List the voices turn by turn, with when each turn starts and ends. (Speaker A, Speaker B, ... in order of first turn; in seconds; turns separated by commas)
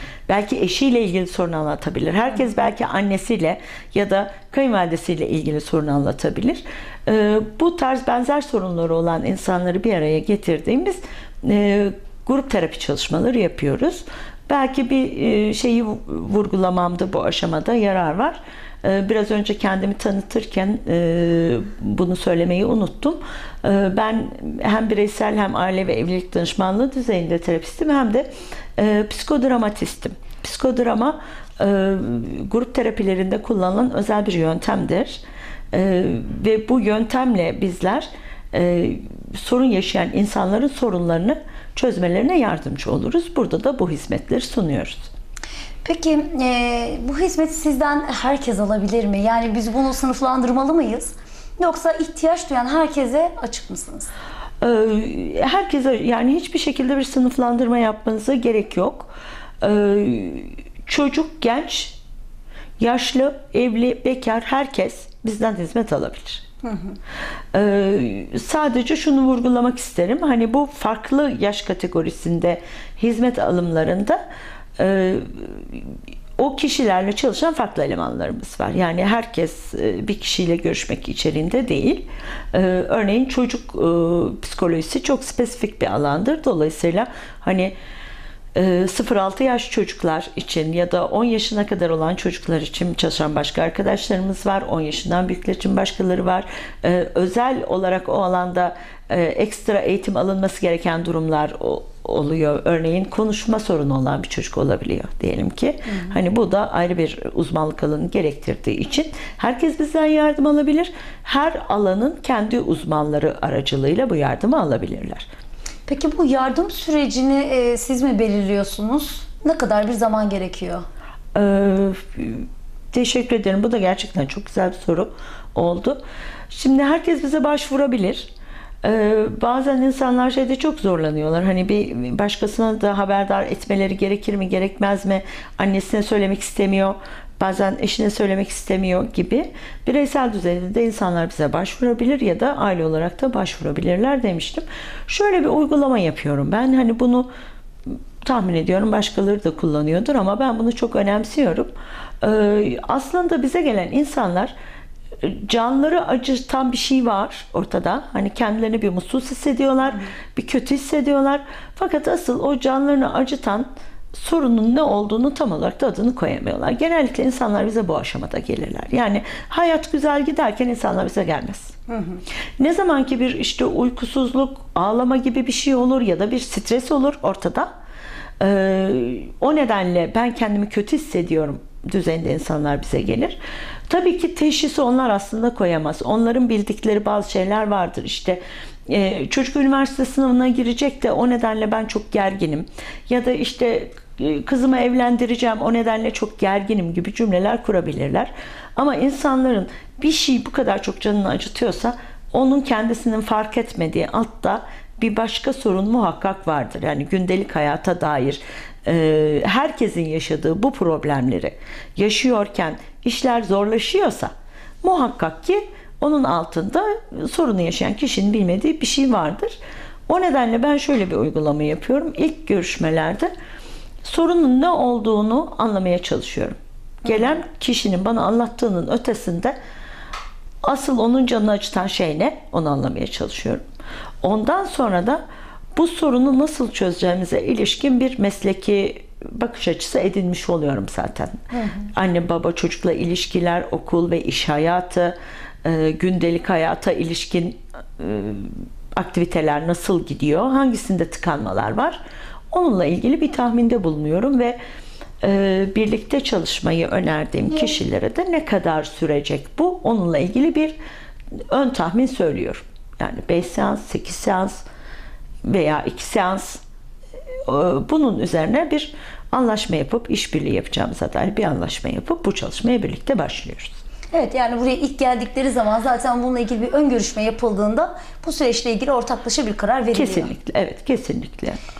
Speaker A: 0.3-45.1, Speaker B: 45.8-54.1, Speaker A: 54.6-62.0, Speaker A: 62.8-66.4, Speaker B: 66.6-67.0, Speaker A: 67.5-74.2, Speaker A: 74.8-87.7, Speaker A: 88.5-115.3, Speaker B: 105.8-106.1, Speaker B: 115.9-120.8, Speaker A: 121.3-128.3, Speaker A: 128.8-147.3, Speaker A: 147.9-154.5, Speaker A: 155.2-171.7, Speaker B: 171.9-172.2, Speaker A: 172.6-177.7, Speaker A: 178.4-214.3, Speaker A: 214.8-219.6, Speaker A: 220.1-223.3, Speaker A: 224.0-229.6, Speaker B: 227.0-227.4, Speaker A: 230.6-233.6, Speaker A: 234.2-235.2, Speaker A: 235.7-252.0, Speaker A: 252.5-254.6, Speaker A: 255.2-260.7, Speaker A: 261.5-264.6, Speaker A: 265.4-266.6, Speaker A: 267.5-273.8, Speaker B: 274.1-280.3, Speaker A: 279.9-281.6